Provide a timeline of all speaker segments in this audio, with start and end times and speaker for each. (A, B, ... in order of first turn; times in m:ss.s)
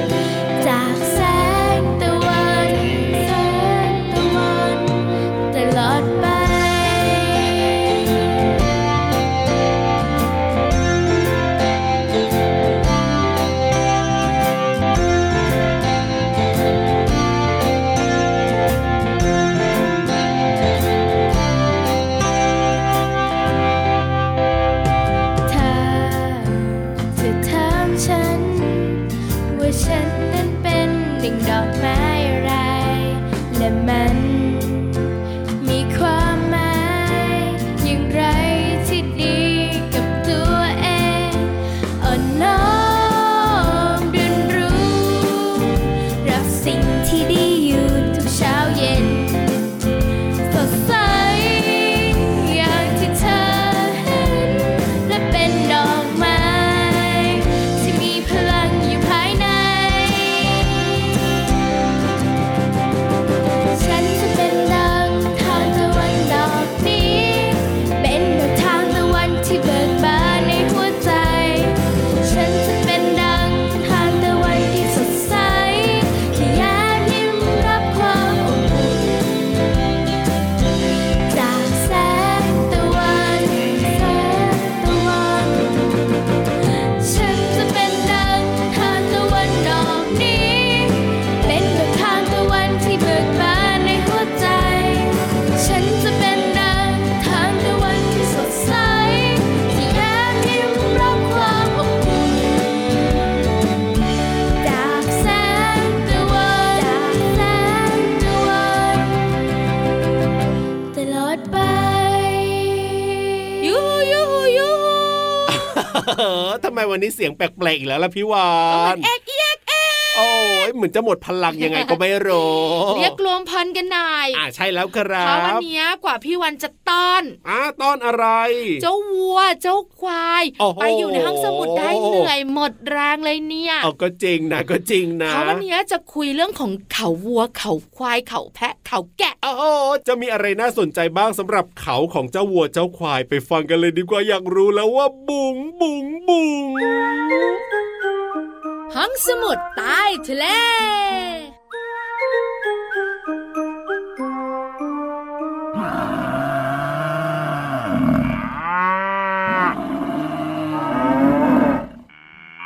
0:00.6-0:07.8 A
0:25.5-0:34.9 A
0:35.6-0:49.7 A
0:50.5-1:00.9 A
1:03.7-1:19.3 A
1:21.3-1:25.9 A
1:27.0-1:43.1 A
1:44.6-1:49.2 A
1:50.9-1:53.1 A
1:53.6-1:55.7 B
1:55.5-1:59.1 C
1:58.7-2:00.7 B
2:00.1-2:03.2 C
2:01.5-2:04.4 B
2:04.3-2:05.6 C
2:05.2-2:07.4 B
2:07.4-2:08.8 C
2:08.8-2:13.9 B
2:10.6-2:12.3 C
2:13.8-2:15.6 C
2:15.3-2:19.4 B
2:19.4-2:27.6 C
2:28.9-2:31.5 B